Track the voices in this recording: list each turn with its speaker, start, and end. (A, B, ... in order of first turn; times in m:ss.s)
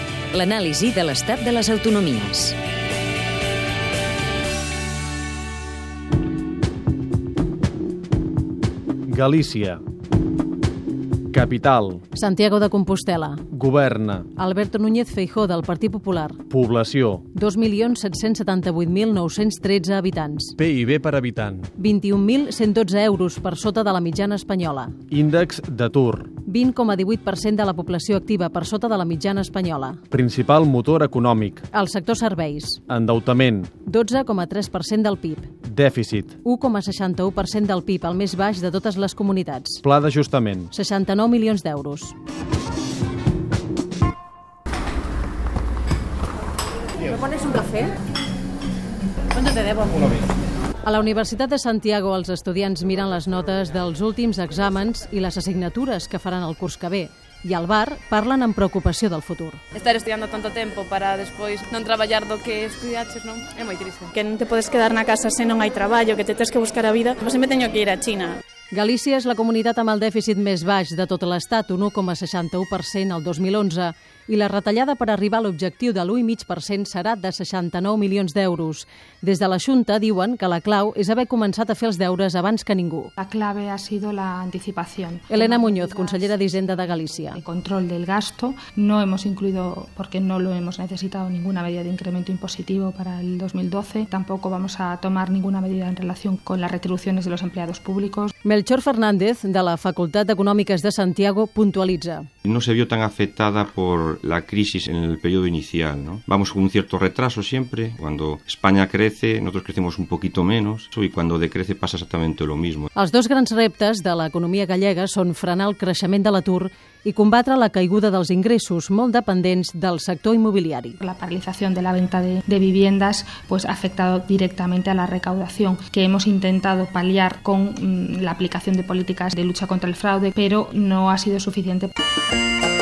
0:00.3-0:02.6 A
0:09.1-0:09.8 B
0:11.3-0:12.0 B
0:12.1-0:13.4 C
0:13.5-0:14.3 B
0:14.4-0:16.4 C
0:16.5-0:17.2 B
0:17.3-0:20.6 C
0:20.6-0:21.7 B
0:21.8-0:25.0 C
0:25.1-0:26.3 B
0:26.4-0:30.0 C
0:30.1-0:31.6 B
0:31.7-0:32.8 C
0:32.9-0:33.7 B
0:33.8-0:35.5 C
0:35.6-0:36.4 B
0:36.4-0:39.8 C
0:39.8-0:40.7 B
0:40.7-0:42.1 C
0:47.0-0:47.9 C
0:49.3-0:50.2 C
0:50.8-0:59.6 C
0:59.7-1:04.1 D
1:04.0-1:08.4 E
1:08.7-1:23.1 C
1:23.2-1:38.3 F
1:25.3-1:27.4 C
1:38.4-1:42.3 C
1:42.4-1:52.9 G
1:52.9-2:01.0 C
2:01.0-2:11.9 F